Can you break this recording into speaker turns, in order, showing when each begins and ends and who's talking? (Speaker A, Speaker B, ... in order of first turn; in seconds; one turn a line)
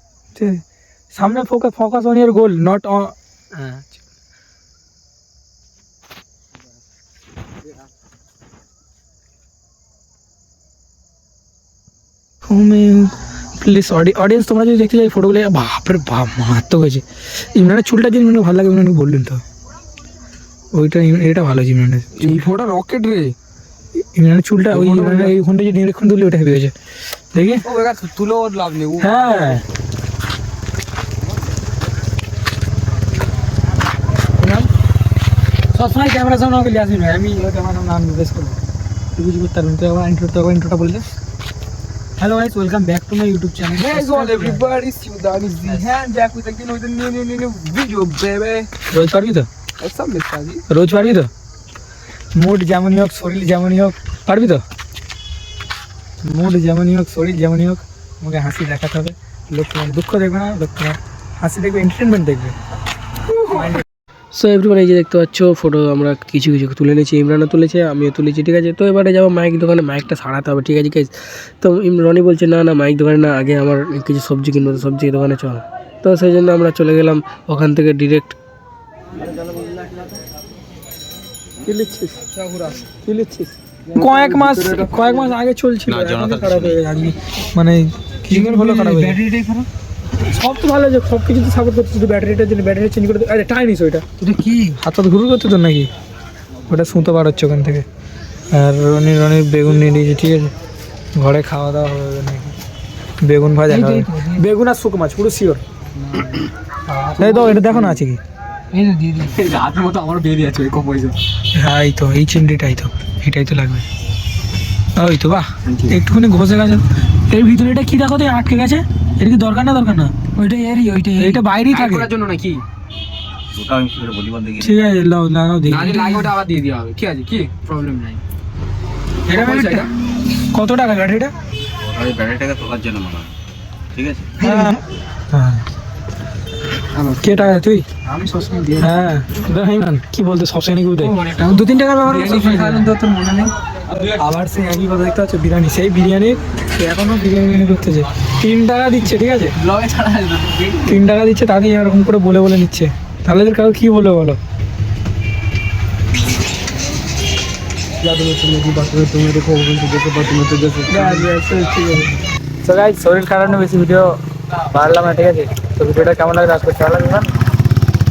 Speaker A: 0.3-4.0
Speaker A: 12.5-19.4
Speaker A: 20.7-22.4
Speaker B: 22.2-23.3
Speaker A: 23.9-26.7
Speaker B: 24.7-25.4
Speaker A: 27.3-27.6
Speaker B: 27.6-29.2
Speaker A: 29.0-29.6
Speaker A: 34.4-34.7
Speaker A: 35.7-38.6
Speaker A: 39.1-41.0
Speaker A: 42.2-44.7
Speaker B: 43.8-48.7
Speaker A: 45.6-46.0
Speaker A: 48.9-49.5
Speaker B: 49.8-50.6
Speaker A: 50.7-51.3
Speaker A: 52.3-54.6
Speaker A: 56.2-62.5
Speaker A: 63.5-63.8
Speaker C: 64.3-78.3
Speaker A: 81.7-82.1
Speaker B: 82.2-82.9
Speaker B: 83.9-85.3
Speaker A: 83.9-89.2
Speaker D: 85.9-86.8
Speaker B: 88.3-89.7
Speaker A: 90.2-94.0
Speaker B: 94.2-94.7
Speaker A: 94.8-95.9
Speaker A: 96.7-97.8
Speaker A: 98.5-100.5
Speaker A: 101.1-102.5
Speaker A: 103.2-105.6
Speaker B: 103.7-104.4
Speaker B: 106.0-108.0
Speaker A: 107.2-108.2
Speaker B: 108.7-111.2
Speaker A: 111.5-113.8
Speaker A: 114.9-120.1
Speaker B: 115.6-116.0
Speaker B: 120.4-122.6
Speaker A: 121.2-122.1
Speaker D: 123.5-124.7
Speaker A: 124.5-126.0
Speaker B: 125.7-128.2
Speaker A: 129.3-131.3
Speaker B: 129.3-129.9
Speaker D: 131.8-133.3
Speaker D: 133.9-134.3
Speaker B: 134.4-134.8
Speaker A: 134.4-134.8
Speaker A: 135.3-135.6
Speaker B: 136.9-137.5
Speaker A: 137.2-137.9
Speaker B: 138.0-138.9
Speaker A: 138.8-142.9
Speaker B: 141.0-144.2
Speaker A: 144.1-149.6
Speaker B: 149.6-151.0
Speaker A: 150.8-154.4
Speaker B: 158.0-161.3
Speaker A: 160.9-162.1
Speaker A: 162.6-164.1
Speaker A: 164.6-167.3